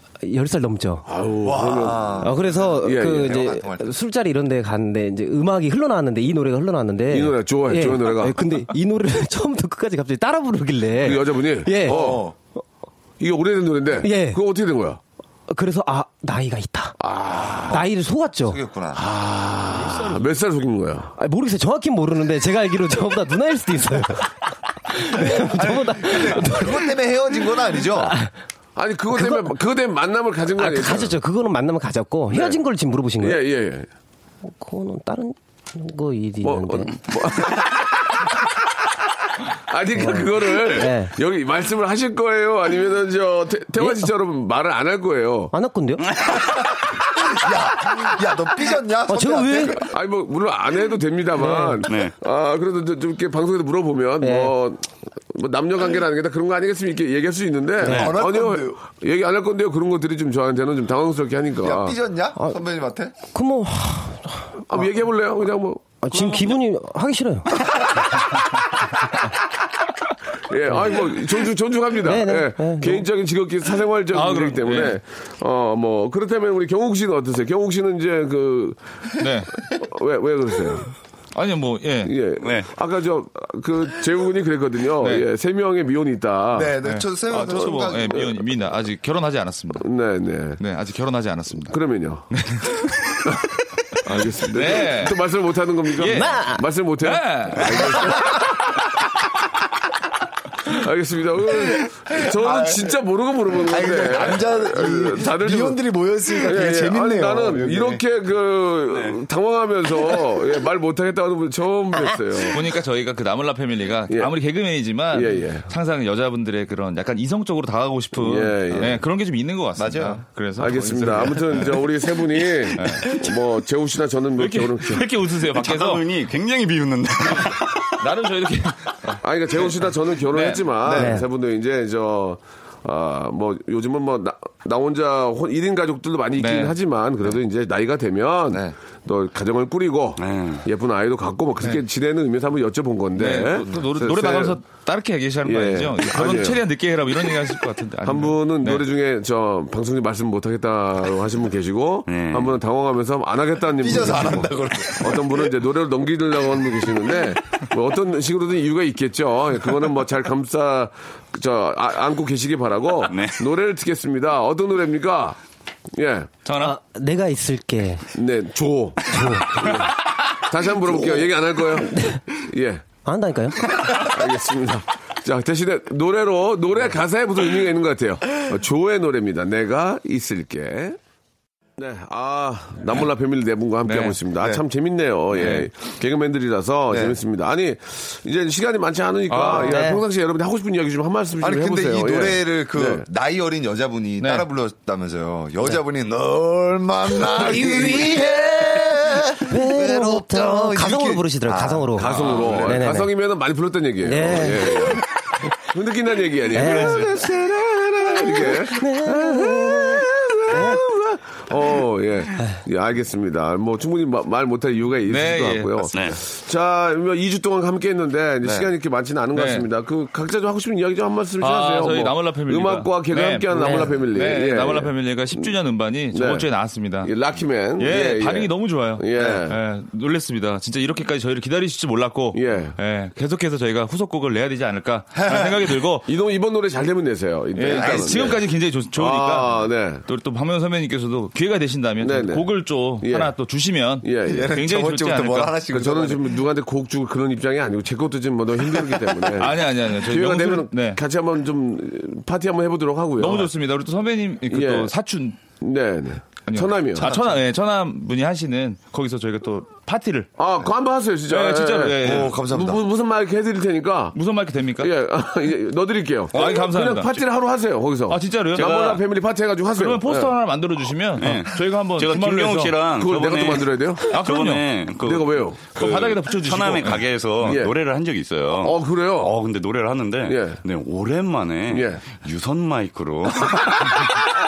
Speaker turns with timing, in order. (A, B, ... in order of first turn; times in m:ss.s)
0:00.2-0:01.1 A
0:01.1-0:02.3 B
0:01.4-0:03.9 C
0:02.2-0:12.2 A
0:02.8-0:03.4 B
0:07.1-0:08.4 B
0:11.0-0:12.3 B
0:11.8-0:12.4 C
0:13.2-0:15.0 B
0:14.0-0:14.4 A
0:15.5-0:17.0 A
0:17.0-0:17.8 B
0:17.4-0:17.8 C
0:17.7-0:18.6 A
0:18.4-0:19.0 C
0:18.9-0:21.1 B
0:19.8-0:20.1 C
0:21.2-0:24.3 A
0:24.9-0:26.9 A
0:25.0-0:28.2 C
0:27.8-0:28.3 A
0:28.8-0:31.2 B
0:29.1-0:29.5 A
0:30.6-0:33.4 A
0:32.3-0:32.6 B
0:33.2-0:33.9 B
0:34.4-0:37.0 A
0:36.4-0:38.2 B
0:39.7-0:45.5 B
0:40.0-0:41.1 A
0:43.8-0:44.1 A
0:45.5-0:46.1 A
0:47.1-0:49.9 C
0:49.1-0:49.8 A
0:49.8-1:02.0 B
0:51.4-0:51.8 A
0:51.9-0:52.1 D
0:54.2-0:54.5 A
0:57.8-0:58.8 C
0:57.8-0:58.1 A
0:57.9-0:58.2 D
1:01.6-1:03.1 C
1:03.3-1:04.6 A
1:04.7-1:05.9 B
1:06.0-1:07.5 A
1:10.5-1:18.8 B
1:12.0-1:13.1 A
1:14.1-1:15.0 E
1:19.2-1:19.5 E
1:19.7-1:20.9 B
1:21.4-1:22.1 E
1:22.0-1:26.8 B
1:22.4-1:22.7 D
1:25.0-1:25.3 E
1:26.5-1:28.3 C
1:26.8-1:29.9 E
1:27.8-1:28.3 B
1:29.8-1:30.6 B
1:30.6-1:31.8 E
1:31.7-1:32.3 B
1:32.3-1:33.2 E
1:34.0-1:38.5 B
1:34.5-1:35.2 E
1:36.0-1:36.4 E
1:36.0-1:36.6 A
1:37.0-1:37.9 E
1:40.7-1:45.8 B
1:42.1-1:43.0 C
1:43.5-1:48.0 C
1:46.4-1:52.7 B
1:48.9-1:49.2 D
1:52.5-2:01.9 E
1:55.1-1:55.7 B
1:58.2-1:59.0 B
1:59.8-2:00.2 C
2:00.6-2:05.0 B
2:02.8-2:03.2 E
2:04.4-2:06.0 E
2:05.0-2:08.0 D
2:07.4-2:09.2 E
2:09.2-2:24.6 B
2:10.3-2:10.7 E
2:10.8-2:11.2 C
2:11.0-2:11.2 A
2:16.4-2:16.8 E
2:18.5-2:18.8 C
2:20.2-2:20.7 D
2:23.1-2:28.8 E
2:25.4-2:26.6 B
2:28.0-2:45.4 B
2:32.1-2:32.6 D
2:33.8-2:35.4 C
2:43.1-2:43.4 D
2:46.0-2:46.3 B
2:46.4-2:46.8 E
2:46.6-2:48.1 A
2:48.2-2:52.8 B
2:49.1-2:49.7 A
2:51.9-2:52.2 A
2:53.0-2:53.7 A
2:53.9-3:01.0 B
3:01.8-3:13.0 B
3:03.8-3:04.2 E
3:05.4-3:05.7 E
3:06.9-3:07.2 C
3:09.3-3:09.8 E
3:09.6-3:10.0 A
3:11.4-3:22.6 C
3:14.2-3:14.5 E
3:17.4-3:18.1 B
3:19.5-3:23.1 A
3:22.0-3:25.0 B
3:24.0-3:25.0 A
3:25.6-3:45.5 B
3:26.5-3:27.0 A
3:28.7-3:30.8 A
3:35.1-3:35.9 E
3:35.9-3:36.2 D
3:38.4-3:38.7 C
3:39.3-3:39.7 E
3:41.4-3:47.1 E
3:43.5-3:43.9 A
3:46.1-3:46.5 B
3:47.0-3:49.6 B
3:47.8-3:56.1 E
3:52.3-3:52.8 B
3:55.2-3:55.6 C
3:56.1-4:00.0 B
3:57.5-4:05.6 E
3:57.7-3:58.4 C
4:02.0-4:03.4 B
4:04.0-4:04.5 B
4:04.3-4:06.4 C
4:05.7-4:13.5 B
4:09.4-4:11.0 E
4:13.2-4:15.4 E
4:14.5-4:14.9 B
4:15.6-4:17.1 B
4:16.5-4:20.3 E
4:17.0-4:17.4 C
4:20.4-4:24.2 B
4:21.3-4:22.4 E
4:22.0-4:22.8 C
4:24.1-4:24.9 E
4:24.8-4:30.3 B
4:26.3-4:27.2 E
4:28.1-4:28.7 E
4:28.6-4:29.0 D
4:29.8-4:32.8 E
4:31.2-4:44.2 D
4:33.0-4:34.1 B
4:34.1-4:34.7 E
4:35.0-4:36.1 B
4:35.8-4:37.6 E
4:37.4-4:37.8 B
4:38.6-4:39.4 B
4:40.3-4:40.6 B
4:41.7-4:42.0 B